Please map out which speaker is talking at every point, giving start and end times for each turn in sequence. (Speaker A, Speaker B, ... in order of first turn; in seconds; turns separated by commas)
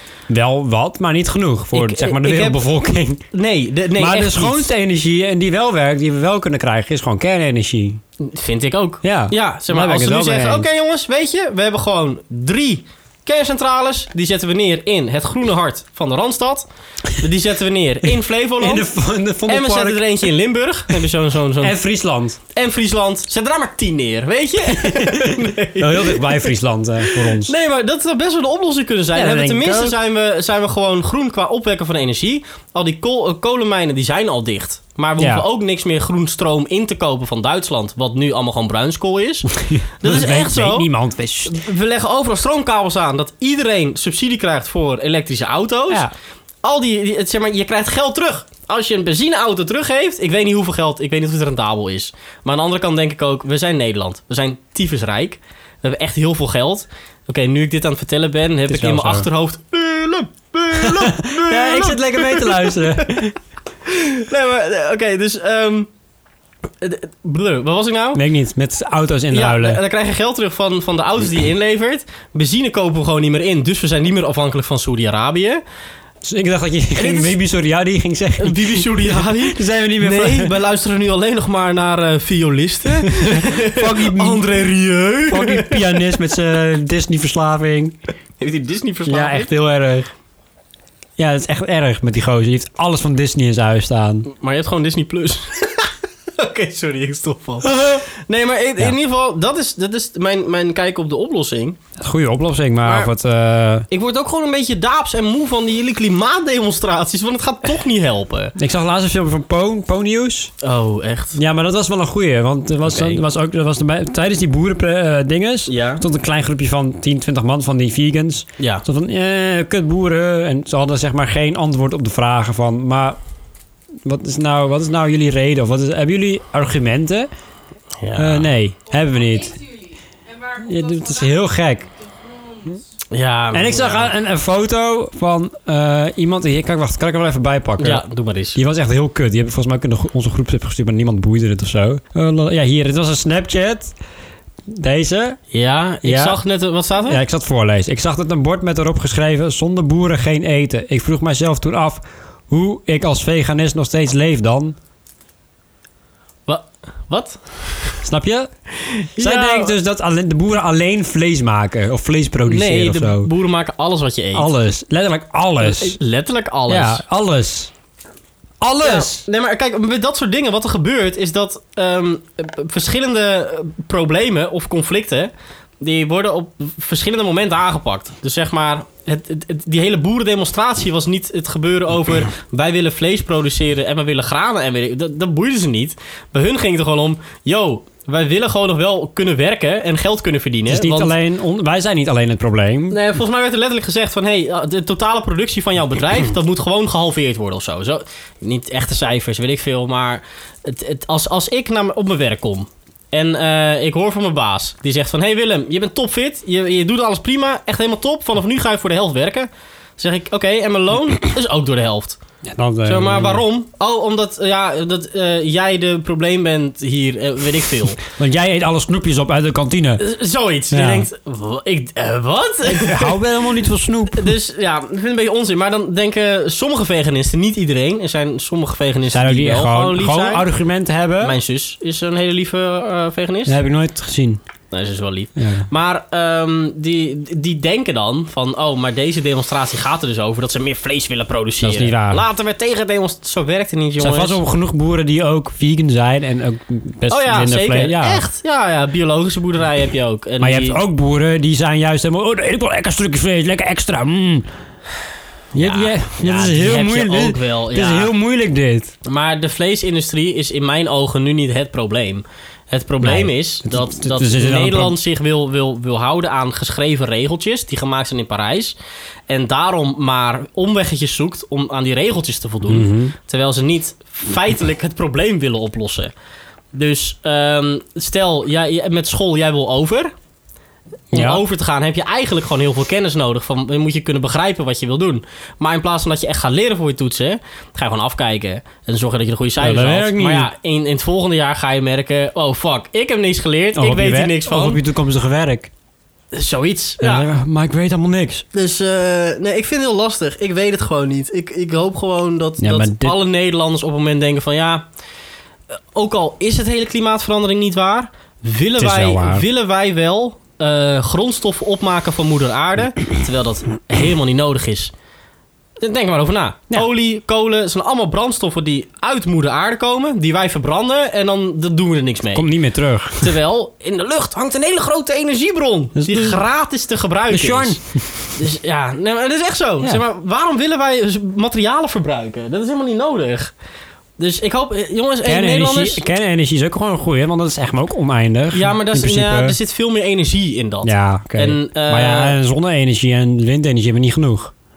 Speaker A: 0.3-3.2, Speaker B: 1.7-2.6, Speaker B: 3.3-4.6, Speaker A: 4.0-8.0, Speaker B: 8.2-18.9, Speaker A: 9.0-10.7, Speaker A: 18.6-20.3, Speaker B: 19.5-21.8, Speaker A: 21.6-22.4, Speaker B: 22.5-26.5, Speaker A: 24.7-27.5, Speaker B: 27.1-40.9, Speaker A: 29.1-30.0, Speaker A: 35.2-35.5, Speaker A: 39.5-41.6, Speaker B: 41.5-46.1, Speaker B: 46.6-63.3, Speaker A: 58.7-59.3, Speaker A: 60.8-63.4, Speaker B: 63.9-65.9, Speaker B: 66.8-68.2, Speaker A: 68.2-69.8, Speaker B: 69.3-75.6, Speaker A: 76.2-80.5, Speaker B: 77.0-77.3, Speaker B: 78.4-86.0, Speaker A: 82.9-84.5, Speaker A: 85.3-88.0, Speaker B: 88.4-89.5, Speaker A: 89.1-90.1, Speaker A: 91.2-94.3, Speaker B: 94.3-101.8, Speaker A: 97.7-98.0, Speaker A: 102.0-103.9, Speaker B: 102.8-103.1, Speaker B: 103.9-108.5, Speaker A: 108.6-110.5, Speaker B: 110.6-111.4, Speaker A: 111.3-123.2, Speaker B: 112.9-113.2, Speaker B: 115.7-116.0, Speaker B: 118.6-118.8, Speaker A: 124.0-127.3, Speaker B: 128.0-128.5, Speaker A: 128.2-129.6, Speaker C: 128.9-132.8, Speaker A: 130.6-131.9, Speaker B: 133.1-134.1, Speaker A: 133.5-138.0, Speaker B: 137.8-138.6, Speaker A: 138.6-143.9, Speaker A: 144.7-145.4, Speaker B: 145.5-147.2, Speaker A: 146.0-146.4, Speaker A: 147.1-154.8, Speaker B: 156.5-158.1, Speaker A: 158.0-158.5, Speaker B: 158.8-159.8, Speaker A: 159.2-163.3, Speaker B: 162.4-164.5, Speaker A: 164.3-166.0, Speaker B: 165.6-167.0, Speaker A: 166.7-167.7, Speaker A: 168.6-169.3, Speaker B: 168.8-191.1, Speaker A: 190.7-193.0, Speaker B: 192.9-212.2, Speaker A: 212.4-213.4, Speaker B: 212.8-218.0, Speaker A: 218.0-220.0, Speaker B: 220.0-223.2, Speaker A: 220.7-221.1, Speaker A: 222.7-224.3, Speaker B: 224.1-230.5, Speaker A: 229.1-231.4, Speaker B: 231.2-233.6, Speaker A: 233.5-234.4, Speaker B: 234.7-244.4, Speaker A: 235.4-235.7, Speaker A: 241.6-242.2, Speaker A: 244.0-248.2, Speaker B: 247.1-250.8, Speaker A: 250.4-254.5, Speaker A: 255.5-258.9, Speaker B: 255.6-258.1, Speaker B: 259.1-268.8, Speaker A: 263.0-265.0, Speaker B: 269.3-276.1, Speaker A: 272.7-273.1, Speaker B: 276.7-280.1, Speaker A: 281.1-281.4, Speaker B: 281.1-294.8, Speaker A: 289.6-290.5, Speaker A: 293.8-295.7, Speaker B: 296.3-297.3, Speaker A: 297.0-298.4, Speaker B: 298.5-304.9, Speaker A: 302.6-303.2, Speaker B: 305.9-314.9, Speaker A: 308.8-309.5, Speaker B: 315.8-322.5, Speaker A: 322.3-323.4, Speaker B: 323.2-327.8, Speaker A: 326.0-326.4, Speaker A: 327.3-328.3, Speaker B: 328.3-333.5, Speaker B: 334.2-336.0, Speaker A: 335.2-339.6, Speaker B: 338.5-342.4, Speaker A: 340.8-344.5